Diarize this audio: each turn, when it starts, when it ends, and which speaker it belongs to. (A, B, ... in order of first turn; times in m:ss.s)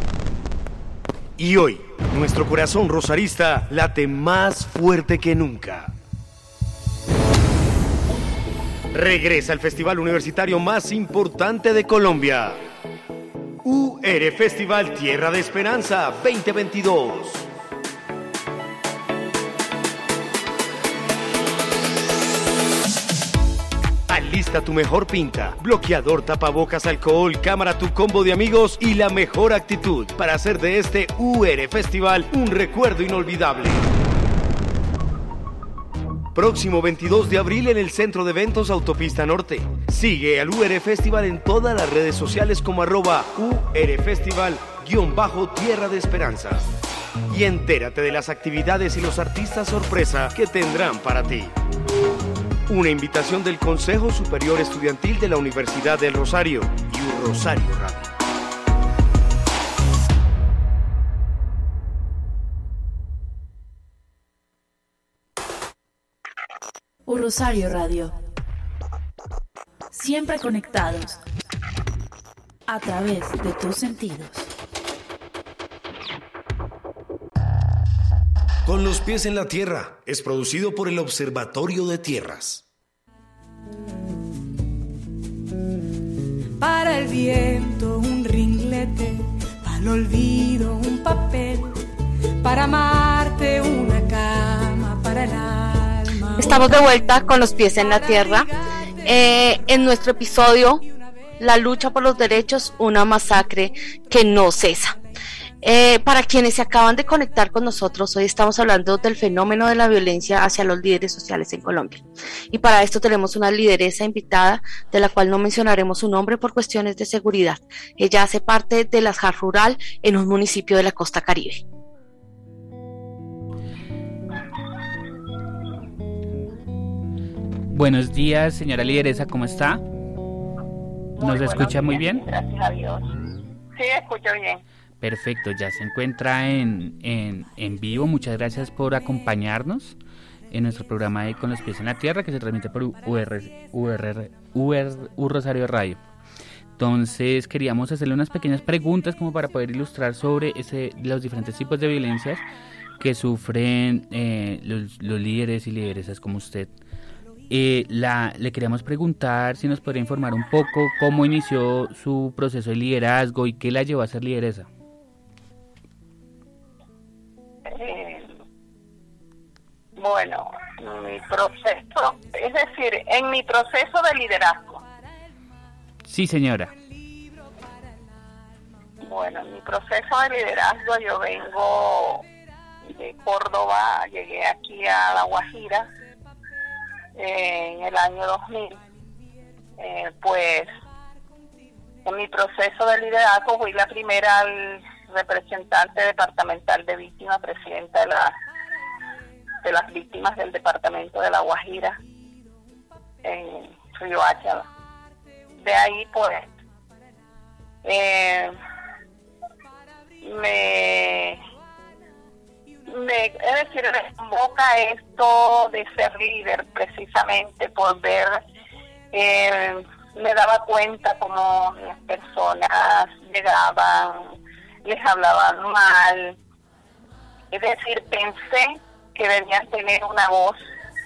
0:01.4-0:05.9 A
0:08.9-0:12.6 A
0:13.6-0:17.5 A
0:24.1-0:33.8 A
0:36.3-0:46.7 A
0:47.3-0:51.5 A
0:52.7-0:58.1 A
1:07.0-1:08.1 B
1:09.9-1:11.2 B
1:12.7-1:14.5 B
1:18.6-1:22.6 A
1:26.6-1:31.8 C
1:32.4-1:37.0 C
1:36.4-1:38.5 D
1:37.6-1:39.7 C
1:39.0-1:40.8 D
1:41.4-1:45.0 D
1:45.6-2:01.6 D
2:07.7-2:09.8 E
2:11.2-2:13.0 F
2:11.2-2:12.2 E
2:13.8-2:14.6 F
2:15.0-2:20.0 E
2:20.5-2:26.0 E
2:26.8-2:32.4 E
2:33.0-2:36.7 E
2:37.5-2:44.7 E
2:47.7-2:48.3 F
2:50.0-2:54.8 F
2:56.1-2:56.7 E
2:59.0-3:02.2 F
3:02.8-3:05.9 F
3:07.2-3:08.8 F
3:09.8-3:10.7 F
3:12.0-3:18.3 F
3:19.6-3:22.0 F
3:23.2-3:24.6 F
3:25.6-3:26.4 F
3:27.8-3:28.5 F
3:30.2-3:31.4 F
3:32.9-3:38.4 F
3:39.1-3:44.3 F
3:44.8-3:46.4 F
3:47.5-3:50.6 F